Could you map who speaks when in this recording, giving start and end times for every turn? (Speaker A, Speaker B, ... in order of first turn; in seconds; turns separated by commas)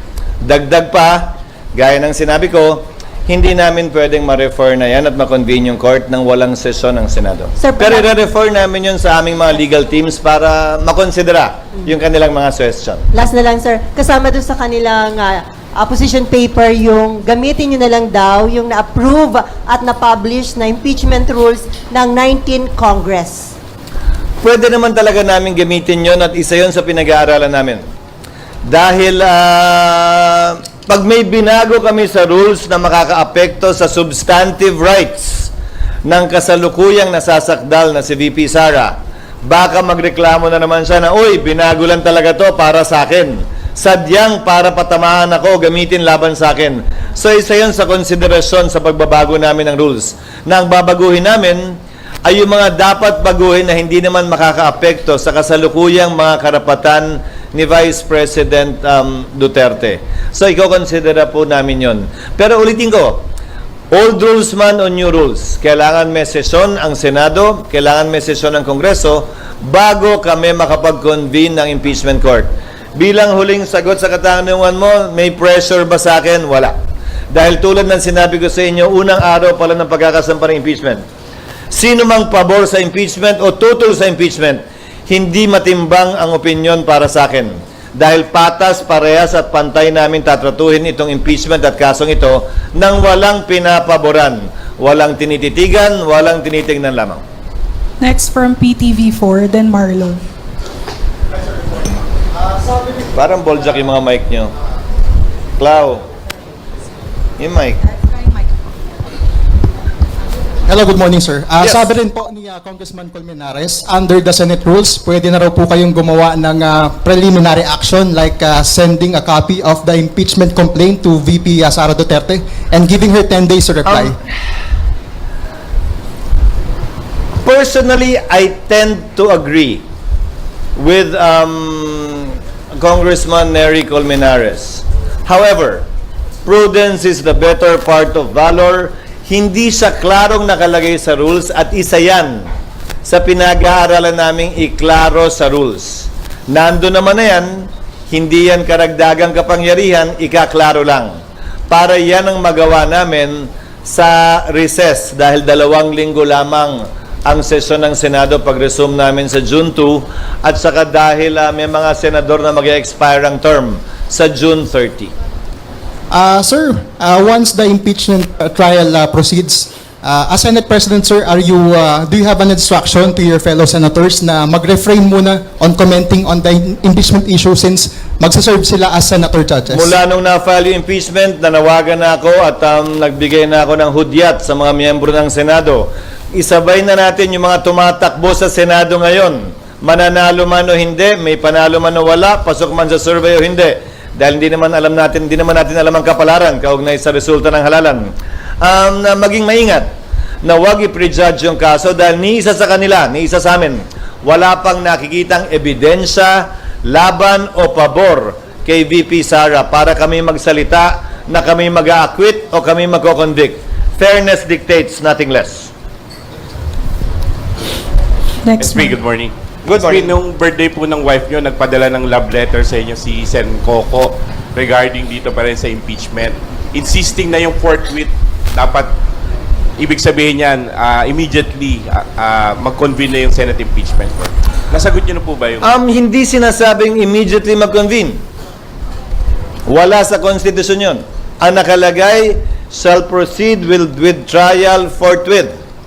Speaker A: 0.4-13.1, Speaker B: 7.6-8.1, Speaker B: 13.1-23.5, Speaker A: 24.4-27.8, Speaker A: 28.6-35.5, Speaker A: 36.0-51.7, Speaker A: 52.2-63.2, Speaker A: 63.9-76.7, Speaker A: 77.3-81.0, Speaker A: 81.7-97.2, Speaker C: 98.0-100.2, Speaker A: 103.1-104.5, Speaker A: 105.6-106.0, Speaker A: 107.4-107.8, Speaker D: 110.7-124.2, Speaker A: 127.4-129.8, Speaker A: 130.8-135.8, Speaker A: 136.4-142.5, Speaker A: 143.0-151.1, Speaker A: 151.7-165.1, Speaker D: 166.1-180.0, Speaker A: 179.7-198.1, Speaker A: 198.6-199.9, Speaker A: 200.4-215.7, Speaker C: 218.4-219.0, Speaker E: 218.6-228.9, Speaker A: 219.6-220.2, Speaker E: 229.8-235.7, Speaker A: 235.6-238.2, Speaker A: 239.7-245.5